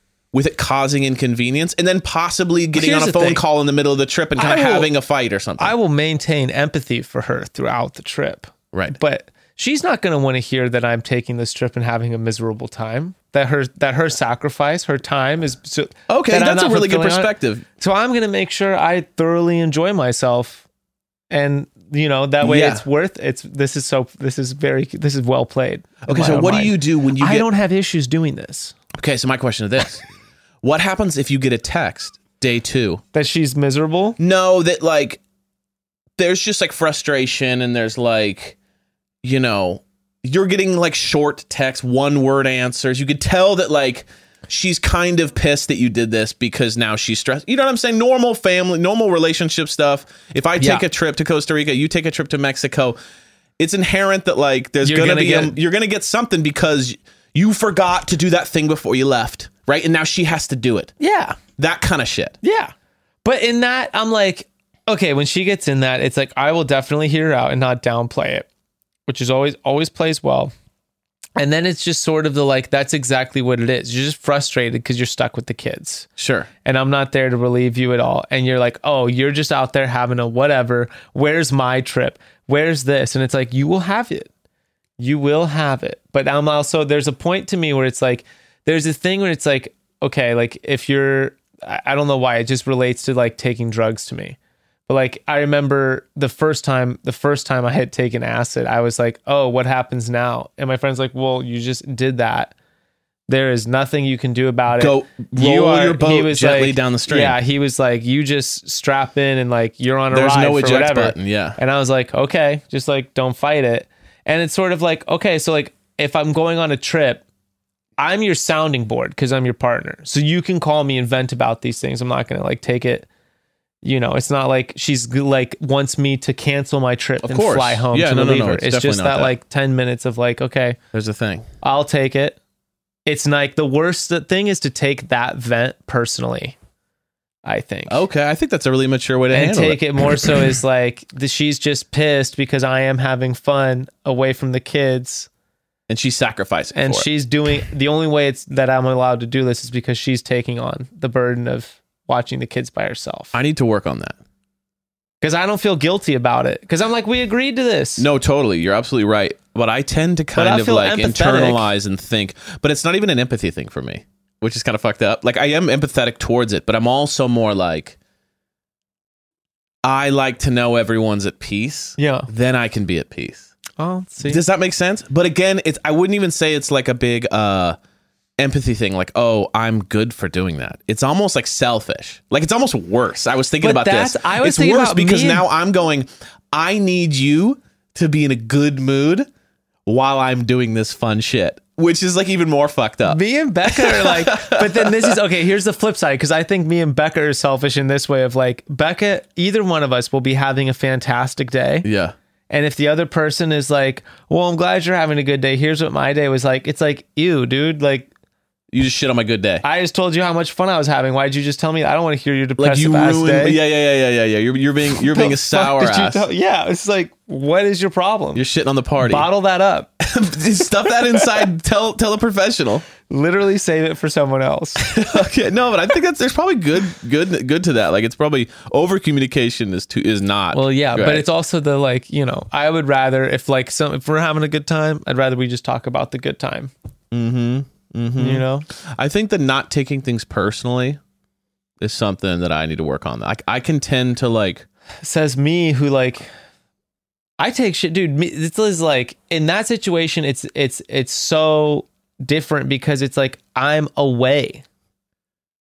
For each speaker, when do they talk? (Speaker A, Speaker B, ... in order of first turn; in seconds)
Speaker A: 0.3-5.7, 16.1-17.6, 22.4-22.8, 26.1-27.5, 28.9-30.0, 30.6-33.0, 34.2-35.2, 36.2-38.5, 39.2-53.0, 53.6-60.9, 61.6-62.4, 76.2-76.5, 104.7-107.4, 110.1-111.6, 127.2-129.3, 130.9-131.5, 137.9-140.4, 145.9-147.1, 153.3-154.2, 158.0-168.0, 169.8-173.5, 174.2-177.8, 178.4-189.3, 189.9-193.2, 193.7-194.9, 201.8-202.2, 208.7-209.6, 212.6-216.2, 218.3-219.3, 220.0-222.9, 224.8-231.2, 237.1-241.0, 241.8-244.7
Speaker B: 2.8-3.4, 4.4-4.9, 5.6-20.6, 21.3-28.8, 33.1-34.2, 50.6-50.9, 54.8-55.6, 61.0-61.4, 62.4-62.7, 63.2-68.5, 69.1-70.5, 71.4-76.1, 76.7-84.3, 85.0-102.5, 103.3-117.2, 118.0-123.1, 123.8-130.8, 131.6-132.4, 133.1-136.6, 137.4-138.1, 139.3-145.3, 146.8-153.3, 155.2-158.1, 160.3-161.7, 172.0-172.3, 173.8-174.4, 183.6-185.5, 193.1-201.9, 202.5-208.1, 209.6-213.6, 215.0-218.4, 219.0-219.9, 223.1-224.8, 230.5-236.7, 238.2-238.7, 245.0-246.3, 247.4-254.6